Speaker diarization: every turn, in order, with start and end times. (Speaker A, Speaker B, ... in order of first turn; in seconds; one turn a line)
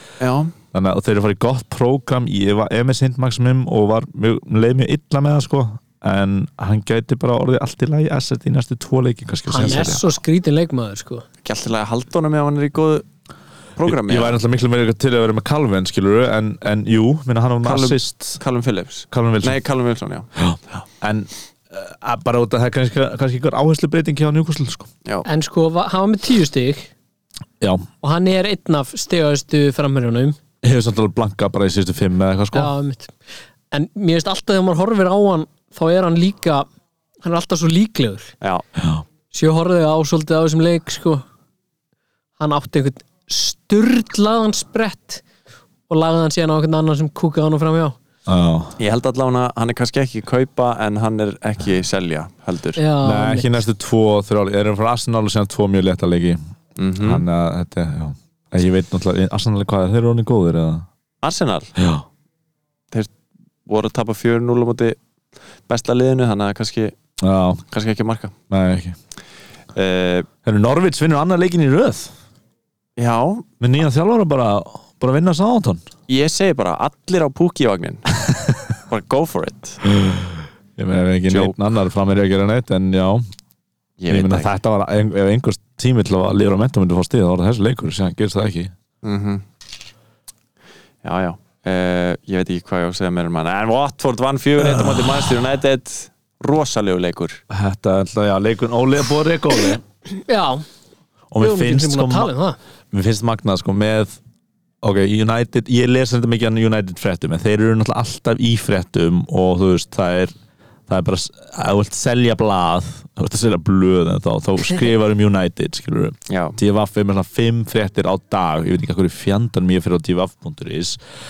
Speaker A: 0.2-0.5
Speaker B: 0.7-10.1
Speaker C: 9.5-11.2
Speaker A: 11.4-13.1
Speaker A: 13.8-14.4
Speaker B: 13.8-18.4
Speaker A: 17.6-20.3
Speaker B: 19.1-19.6
Speaker B: 20.4-24.9
Speaker C: 25.2-26.9
Speaker B: 27.6-27.9
Speaker C: 28.0-30.4
Speaker B: 30.6-32.7
Speaker C: 32.5-33.1
Speaker C: 33.7-36.7
Speaker C: 37.2-38.3
Speaker B: 38.8-39.0
Speaker C: 39.3-41.2
Speaker C: 42.4-45.2
Speaker C: 45.9-48.0
Speaker B: 48.3-48.8
Speaker A: 48.8-52.8
Speaker C: 52.8-53.6
Speaker B: 53.0-56.4
Speaker A: 56.8-57.2
Speaker B: 57.0-60.9
Speaker A: 61.2-61.7
Speaker B: 61.8-62.1
Speaker A: 63.7-65.0
Speaker A: 65.7-66.9
Speaker B: 67.2-67.6
Speaker A: 67.7-68.3
Speaker B: 68.5-69.0
Speaker A: 69.8-70.3
Speaker B: 70.5-72.1
Speaker A: 73.0-73.5
Speaker B: 73.6-75.8
Speaker A: 76.1-78.2
Speaker A: 78.9-79.8
Speaker B: 79.8-83.2
Speaker A: 81.3-81.6
Speaker A: 84.0-84.5
Speaker B: 84.1-88.7
Speaker A: 89.0-89.4
Speaker A: 91.0-97.4
Speaker B: 94.6-95.4
Speaker B: 97.5-99.8
Speaker C: 100.1-100.7
Speaker B: 101.3-102.3
Speaker C: 101.4-102.6
Speaker B: 102.9-104.2
Speaker B: 104.8-110.3
Speaker B: 110.9-121.0
Speaker A: 116.3-116.6